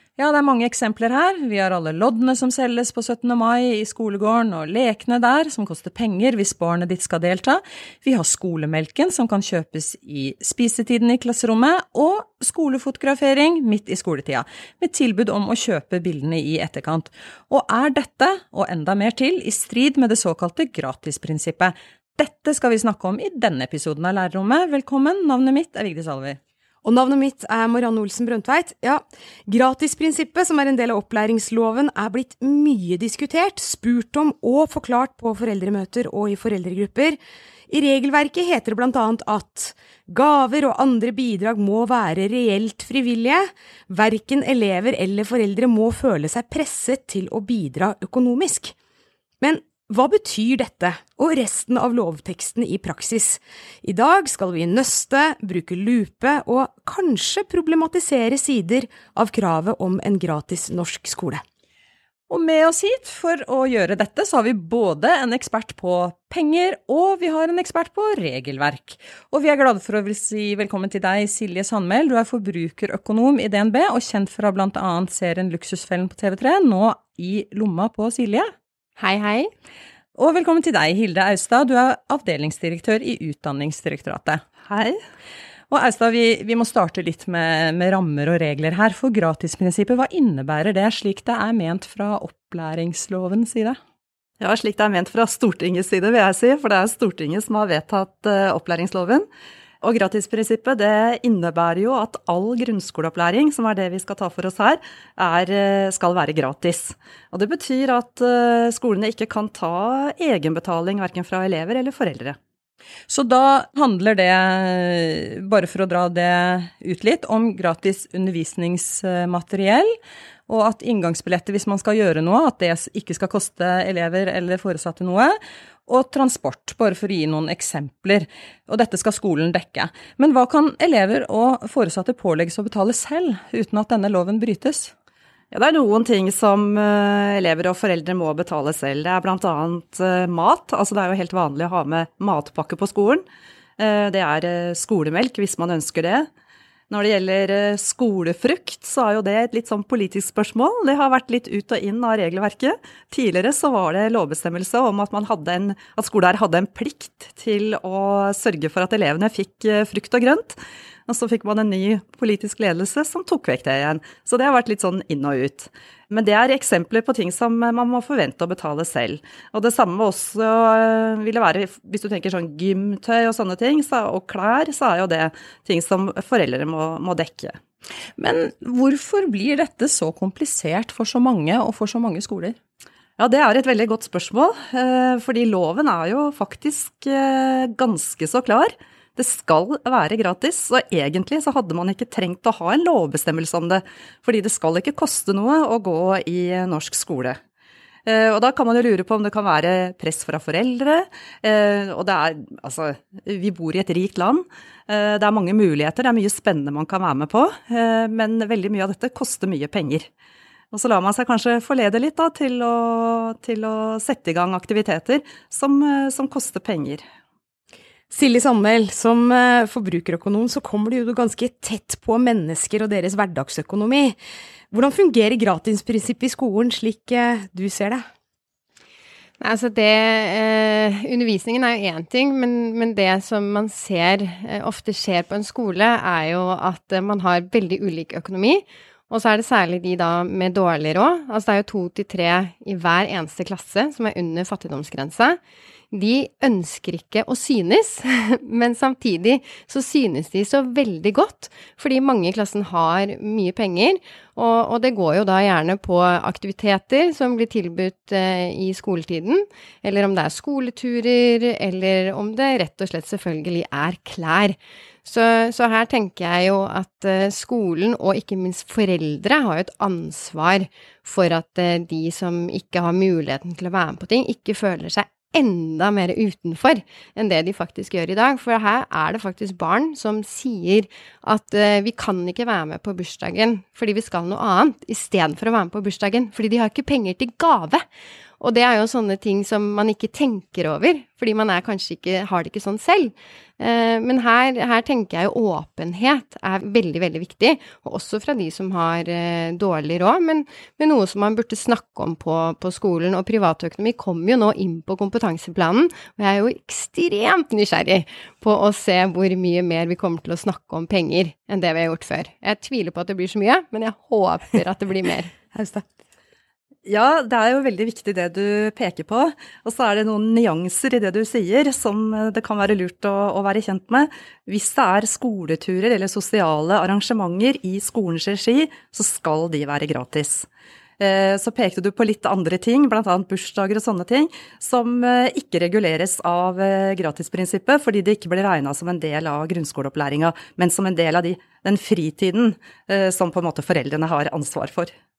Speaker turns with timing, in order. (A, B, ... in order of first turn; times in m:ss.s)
0:00.2-0:26.4 A
0:26.8-0:48.8 B
0:49.4-1:01.4 B
1:02.3-1:18.5 A
1:19.0-1:19.5 C
1:20.2-1:24.4 A
1:24.7-1:25.0 D
1:25.7-1:33.8 A
1:34.4-1:39.3 D
1:39.8-1:52.4 D
1:53.1-1:59.9 A
2:00.5-2:05.4 A
2:05.9-2:14.9 A
2:15.5-2:23.2 D
2:23.8-2:26.3 D
2:26.9-2:57.6 D
2:58.2-3:02.6 A
3:03.2-3:17.4 D
3:18.1-3:30.1 D
3:30.7-3:37.0 D
3:38.1-3:44.2 B
3:44.7-3:48.1 B
3:49.4-4:05.4 C
4:05.9-4:47.8 C
4:48.4-5:15.3 C
5:15.5-5:15.8 B
5:16.9-5:30.5 D
5:31.0-5:44.9 D